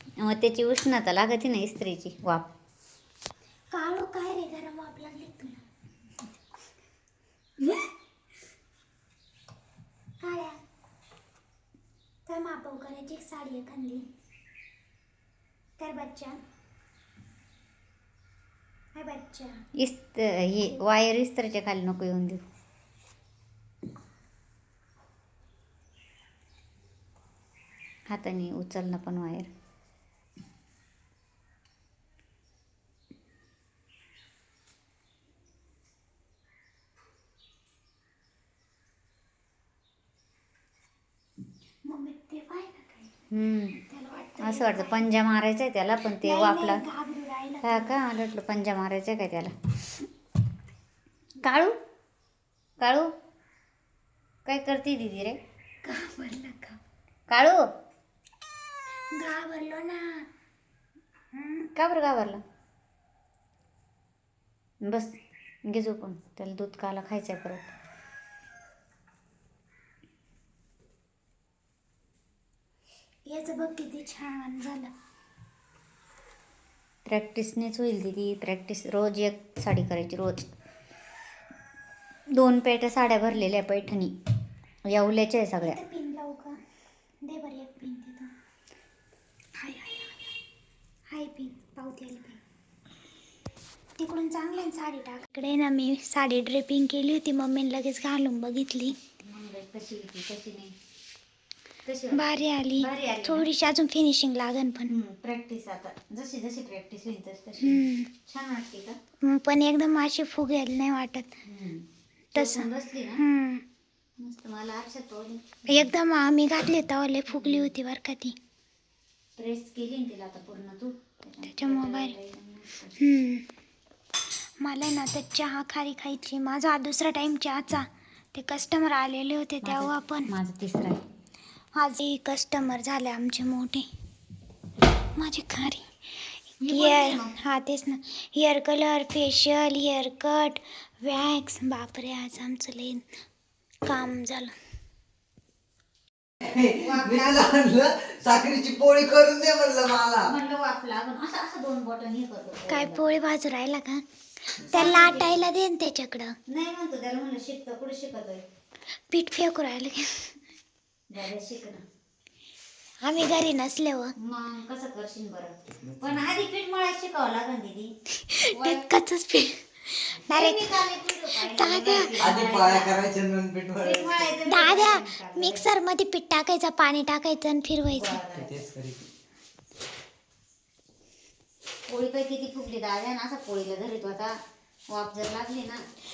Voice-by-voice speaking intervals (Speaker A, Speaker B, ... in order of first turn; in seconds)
Speaker A: 0.2-2.5, 19.8-22.4, 28.1-29.5, 43.3-43.8, 44.4-46.8, 47.6-49.5, 51.4-51.8, 52.8-53.1, 54.5-55.4, 57.3-57.6, 61.8-62.4, 64.8-67.7, 77.1-80.5, 82.3-84.2, 84.9-85.8, 99.2-100.8, 101.8-103.5, 104.9-109.0, 111.4-113.2, 114.2-115.9, 117.4-117.7, 119.4-123.0, 129.6-131.0, 136.6-137.4, 146.8-147.5, 150.2-153.1, 154.7-155.4, 156.5-158.4, 161.1-161.8, 164.2-167.9, 168.5-168.8, 170.3-173.0, 173.8-175.7, 177.9-178.6, 181.9-184.3, 184.9-185.8
Speaker B: 3.7-5.7, 10.2-10.6, 12.3-14.1, 15.8-16.4, 18.9-19.6, 41.9-43.1, 43.8-45.1, 46.2-48.0, 55.8-56.8, 59.1-60.2, 61.3-61.7, 73.3-74.9, 85.6-86.6, 87.2-88.3, 89.6-90.4, 91.1-92.4, 94.0-99.0, 102.1-104.9, 107.6-108.1, 109.2-111.4, 112.3-113.6, 115.7-118.4, 121.5-122.2, 123.0-123.5, 124.4-130.3, 131.8-133.9, 135.2-143.2, 143.8-144.6, 152.7-156.4, 159.1-160.4, 163.0-164.1, 168.2-170.8, 171.3-172.1, 174.5-178.2
Speaker C: 146.4-150.3, 172.1-174.2, 178.3-179.1